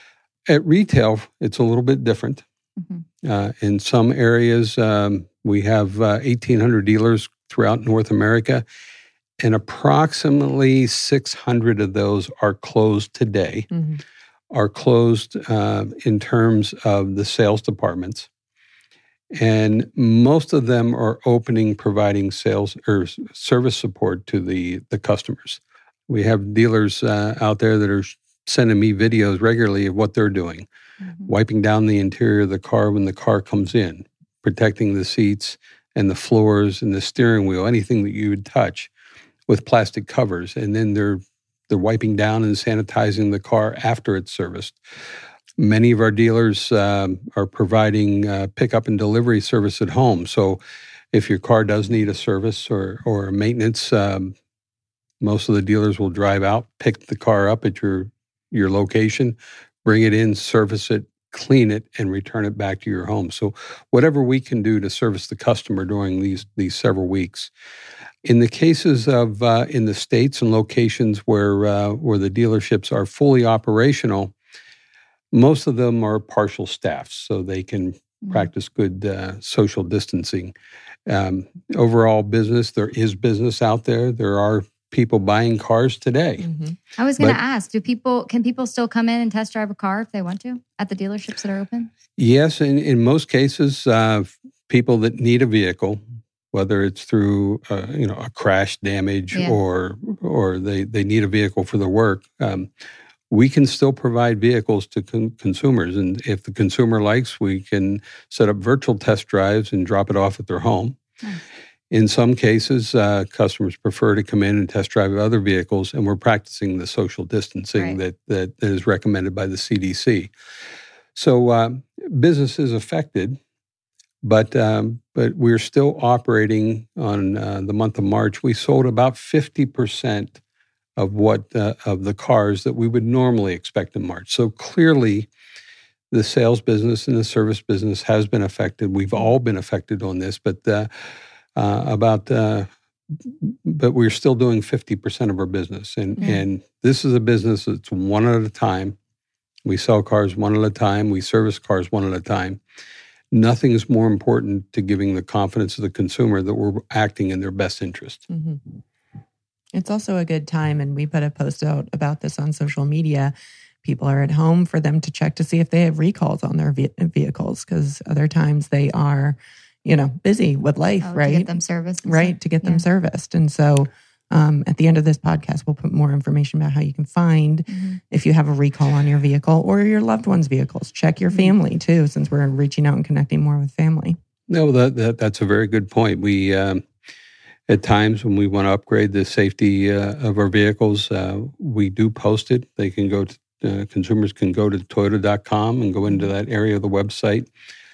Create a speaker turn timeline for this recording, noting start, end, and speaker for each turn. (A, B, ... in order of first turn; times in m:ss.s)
0:00.5-0:02.4 A
0:03.2-0:08.6 A
0:09.4-0:13.7 A
0:13.7-0:14.0 B
0:14.5-0:18.3 A
0:19.3-0:30.6 A
0:31.2-0:38.9 A
0:39.5-0:44.8 A
0:45.6-0:50.6 A
0:51.1-0:54.3 A
0:55.2-1:07.5 A
1:08.2-1:14.3 A
1:15.3-1:20.5 A
1:21.1-1:26.5 A
1:26.4-1:26.8 B
1:27.0-1:31.9 C
1:32.2-1:36.0 A
1:36.5-1:42.7 A
1:39.3-1:39.6 C
1:43.3-1:51.0 A
1:51.9-2:00.3 A
2:01.1-2:03.4 A
2:04.2-2:10.4 A
2:11.0-2:15.3 A
2:16.1-2:20.9 A
2:21.6-2:22.7 A
2:23.2-2:29.0 A
2:29.6-2:32.6 A
2:33.3-2:38.2 A
2:38.3-2:38.7 B
2:39.7-2:51.5 B
2:51.0-2:52.8 C
2:52.0-3:04.2 B
2:57.7-2:58.0 C
3:04.5-3:06.8 A
3:07.7-3:17.5 A